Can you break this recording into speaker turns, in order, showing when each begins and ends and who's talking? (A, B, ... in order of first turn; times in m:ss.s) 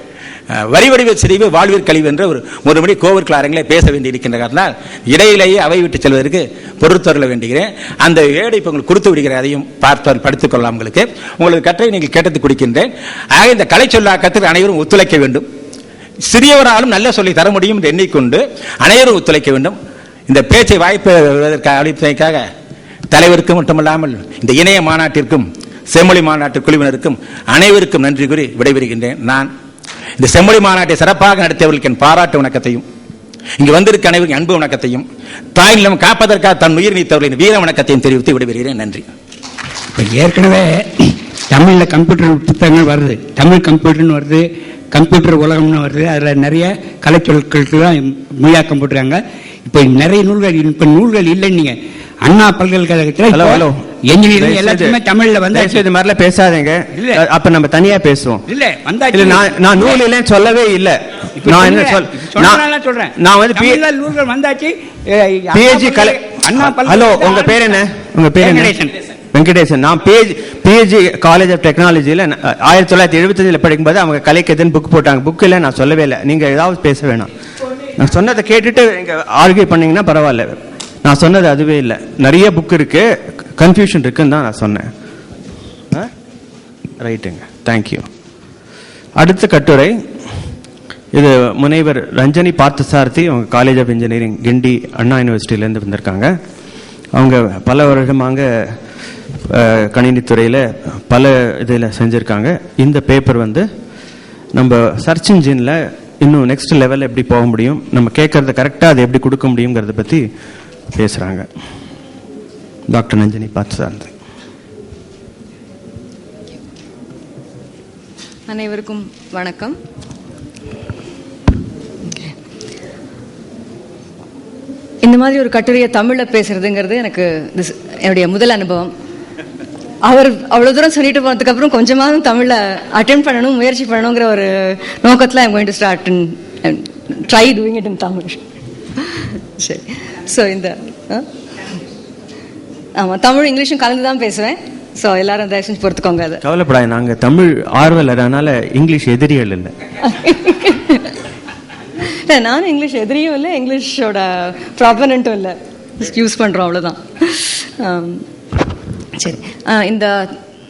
0:00.5-0:15.4 A
0:16.2-0:19.8 A
0:20.3-0:22.4 A
0:23.1-0:29.5 A
0:30.2-0:32.8 A
0:33.6-0:39.0 A
0:39.9-0:55.8 B
0:53.3-0:53.8 C
0:54.3-0:55.0 C
0:55.5-0:58.4 C
0:56.9-0:57.2 B
0:58.5-0:59.9 B
0:59.1-1:02.6 C
1:01.4-1:07.7 B
1:03.2-1:03.8 C
1:05.5-1:08.7 C
1:08.4-1:09.0 B
1:09.3-1:17.3 C
1:18.0-1:23.1 C
1:23.6-1:24.9 C
1:27.0-1:28.0 C
1:29.2-1:29.9 C
1:31.1-1:36.3 C
1:37.1-1:38.7 C
1:39.5-1:43.6 C
1:44.5-1:50.2 C
1:50.9-1:51.5 C
1:52.9-1:54.1 C
1:58.5-1:59.8 D
2:05.0-2:08.9 D
2:10.0-2:18.4 D
2:19.0-2:21.2 D
2:23.0-2:26.4 D
2:26.4-2:29.7 C
2:30.1-2:31.1 D
2:32.0-2:38.2 D
2:39.2-2:40.3 D